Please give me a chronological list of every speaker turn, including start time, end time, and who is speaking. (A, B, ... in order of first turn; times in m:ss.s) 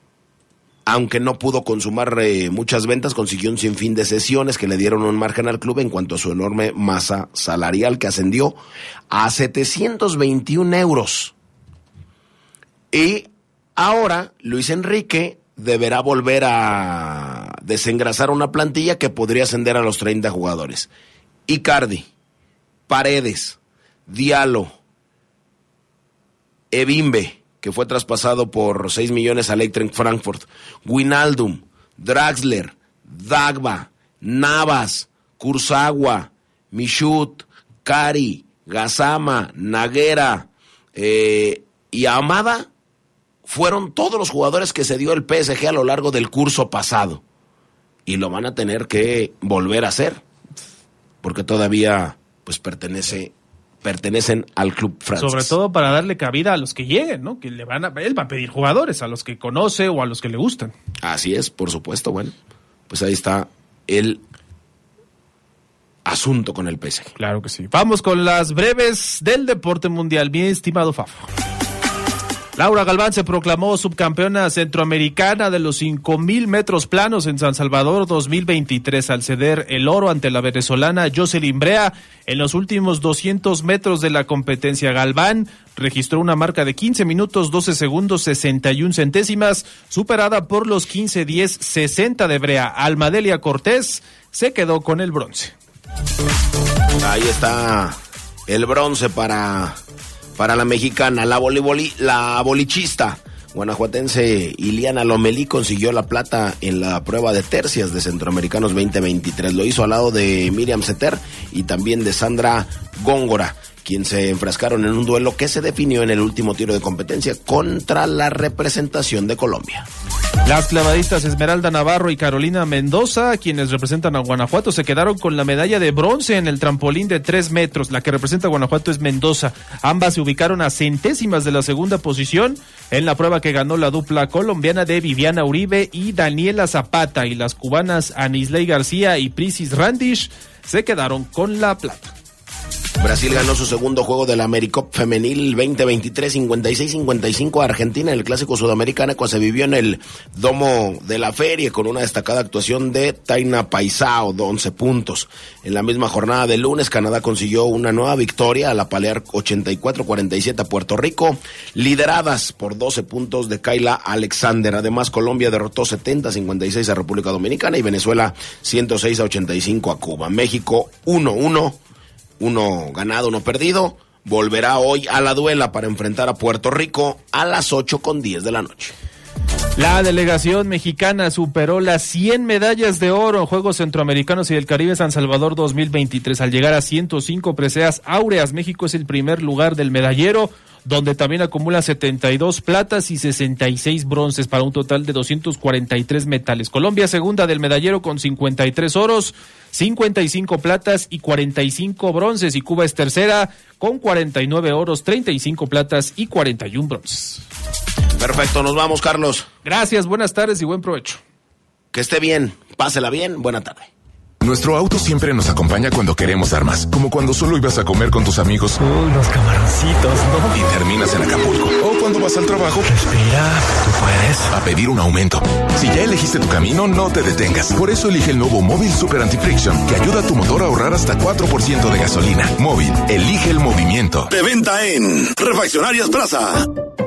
0:00.9-0:08.6 A
0:09.1-0:11.3 A
0:12.9-0:20.9 A
0:21.5-0:22.1 A
0:22.9-0:24.8 A
0:26.7-0:42.7 A
0:43.4-0:47.2 A
0:48.1-0:50.2 A
0:51.2-0:55.6 A
0:55.2-1:00.7 B
1:01.0-1:02.4 A
1:02.9-1:04.2 A
1:06.0-1:07.1 A
1:07.2-1:11.3 B
1:12.6-1:35.5 B
1:37.0-1:39.8 A
1:40.4-1:59.9 A
2:00.5-2:22.1 B
2:23.0-2:51.8 A
2:52.4-2:59.0 A
2:59.8-3:27.4 B
3:28.2-3:29.5 A
3:29.6-3:31.2 B
3:31.9-3:33.9 A
3:34.4-3:38.8 C
3:38.8-3:40.5 D
3:40.5-3:42.9 C
3:42.9-3:44.5 D
3:44.5-3:54.3 C
3:54.3-3:56.7 E